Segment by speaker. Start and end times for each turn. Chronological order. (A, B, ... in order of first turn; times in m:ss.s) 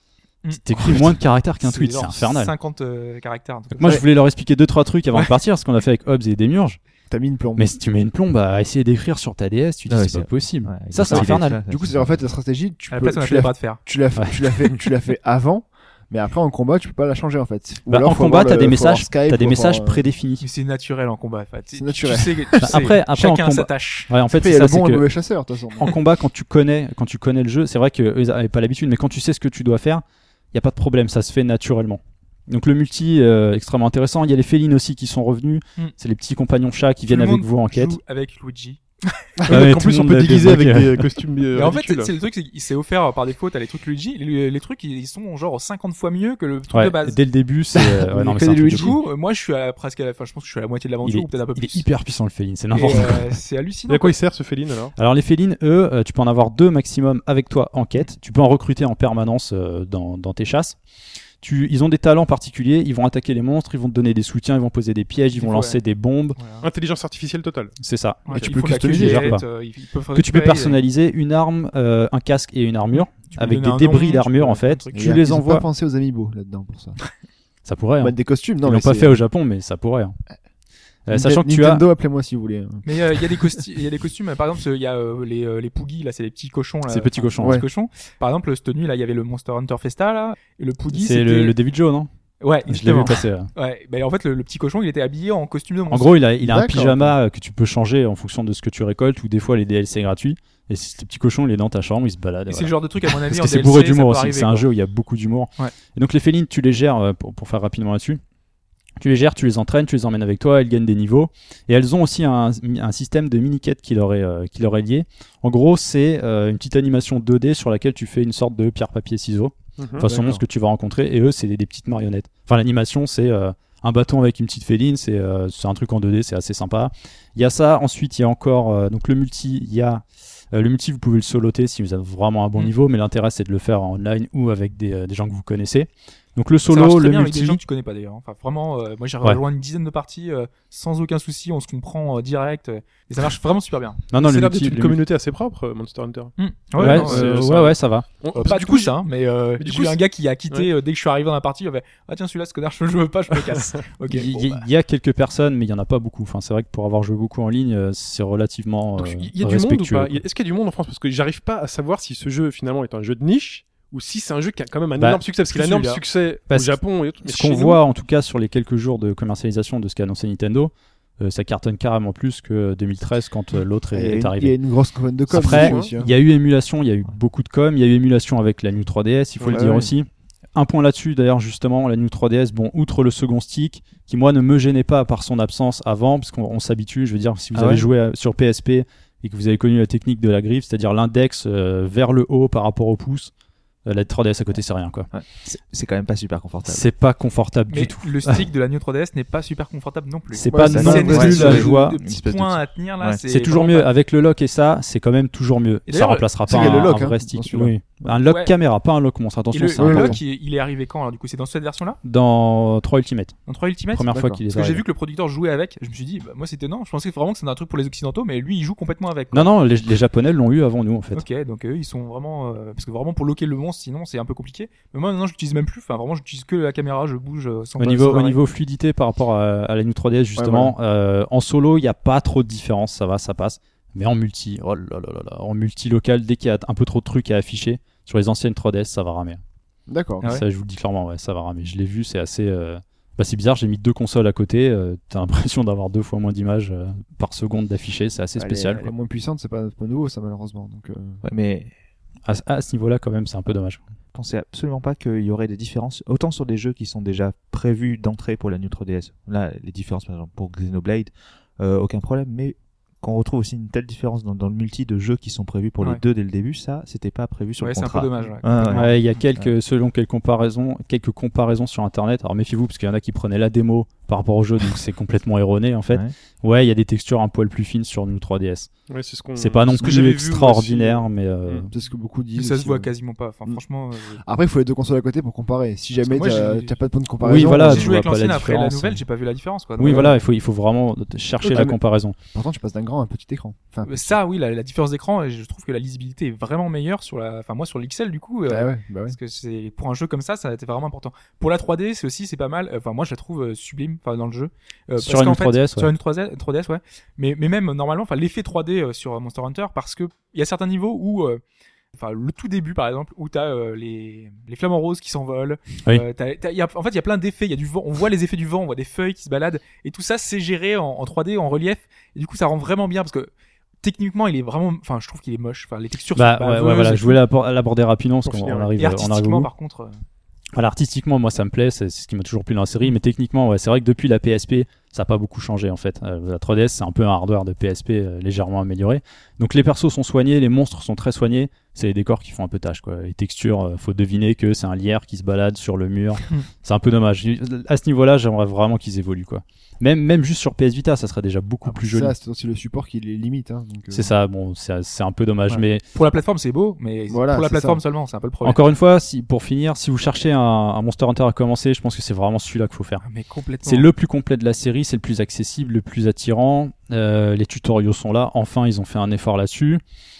0:00.4-0:03.9 A
0:00.5-0:02.5 B
0:03.8-0:06.8 B
0:07.1-0:07.7 C
0:07.6-0:11.6 B
0:09.9-0:12.2 D
0:11.1-0:20.0 C
0:12.9-0:13.8 A
0:14.2-0:14.4 B
0:17.9-0:20.4 B
0:20.4-0:24.1 A
0:21.8-0:22.9 C
0:22.6-0:25.1 B
0:24.3-0:26.0 C
0:25.8-0:38.0 B
0:37.1-0:39.3 A
0:39.4-0:42.1 E
0:39.5-0:41.2 B
0:41.5-0:47.2 A
0:46.7-0:49.0 B
0:47.7-0:49.0 C
0:48.7-0:51.9 A
0:51.0-0:53.3 B
0:52.7-0:54.2 A
0:53.9-0:54.9 E
0:55.0-1:00.8 B
1:01.4-1:06.4 B
1:05.4-1:05.8 A
1:06.4-1:06.7 A
1:06.6-1:07.7 E
1:07.8-1:09.4 B
1:08.3-1:10.8 A
1:08.3-1:09.4 C
1:10.1-1:15.7 B
1:12.9-1:15.1 A
1:14.9-1:17.0 C
1:17.6-1:20.2 B
1:18.0-1:19.2 C
1:21.1-1:21.8 B
1:21.1-1:23.2 C
1:22.8-1:31.6 A
1:26.9-1:27.6 B
1:27.4-1:27.7 C
1:30.9-1:32.1 B
1:32.4-1:36.2 A
1:32.7-1:33.5 B
1:35.9-1:48.2 B
1:36.4-1:37.2 C
1:42.5-1:44.7 A
1:49.0-2:17.6 B
1:59.8-2:00.1 E
2:00.0-2:00.4 C
2:16.7-2:24.0 A
2:24.1-2:25.0 B
2:24.2-2:29.0 E
2:26.4-2:27.3 A
2:26.8-2:28.1 B
2:28.3-2:34.6 A
2:29.6-2:30.7 E
2:34.1-2:40.2 B
2:39.0-2:47.8 E
2:45.0-2:45.2 B
2:45.5-2:46.0 A
2:46.5-2:54.6 B
2:53.9-2:56.1 C
2:55.3-3:13.3 B
2:55.4-2:55.9 E
2:59.5-2:59.9 C
2:59.6-2:59.9 D
3:07.6-3:07.9 D
3:13.8-3:15.1 B
3:15.1-3:16.9 D
3:16.7-3:18.4 B
3:17.7-3:23.9 A
3:20.3-3:22.0 B
3:20.5-3:21.6 C
3:20.7-3:23.2 D
3:23.3-3:30.2 B
3:25.9-3:26.3 A
3:26.5-3:27.7 C
3:28.2-3:28.5 A
3:29.5-3:32.0 A
3:29.8-3:30.2 C
3:32.0-3:33.4 B
3:33.5-3:39.5 A
3:33.9-3:34.8 B
3:34.1-3:34.4 C
3:39.3-3:41.2 B
3:41.1-3:48.4 A
3:47.8-3:59.4 B
3:50.4-3:50.8 C
3:59.9-4:00.4 C
4:00.2-4:08.9 B
4:08.4-4:11.2 C
4:11.2-4:11.7 D
4:12.2-4:13.8 B
4:14.1-4:29.5 D
4:27.6-4:29.2 A
4:28.7-4:38.7 B
4:38.9-4:41.7 E
4:39.4-4:41.7 B
4:41.7-4:42.9 C
4:42.4-4:44.2 A
4:44.2-4:47.9 C
4:46.0-4:46.8 A
4:47.2-4:49.0 B
4:47.5-4:50.1 A
4:49.8-4:52.2 B
4:49.8-4:50.2 C
4:51.4-4:51.8 C
4:52.3-4:54.2 C
4:53.8-5:11.4 A
4:58.5-4:59.2 C
5:05.0-5:05.9 B
5:12.0-5:23.3 A
5:23.8-5:27.2 A
5:26.2-5:29.5 B
5:28.2-5:28.7 E
5:28.8-5:30.0 A
5:30.5-5:52.1 B
5:51.7-5:54.1 C
5:53.9-5:55.8 B
5:55.9-5:58.6 A
5:57.1-5:57.8 C
5:58.4-6:03.0 B
6:03.0-6:03.9 A
6:03.6-6:09.8 B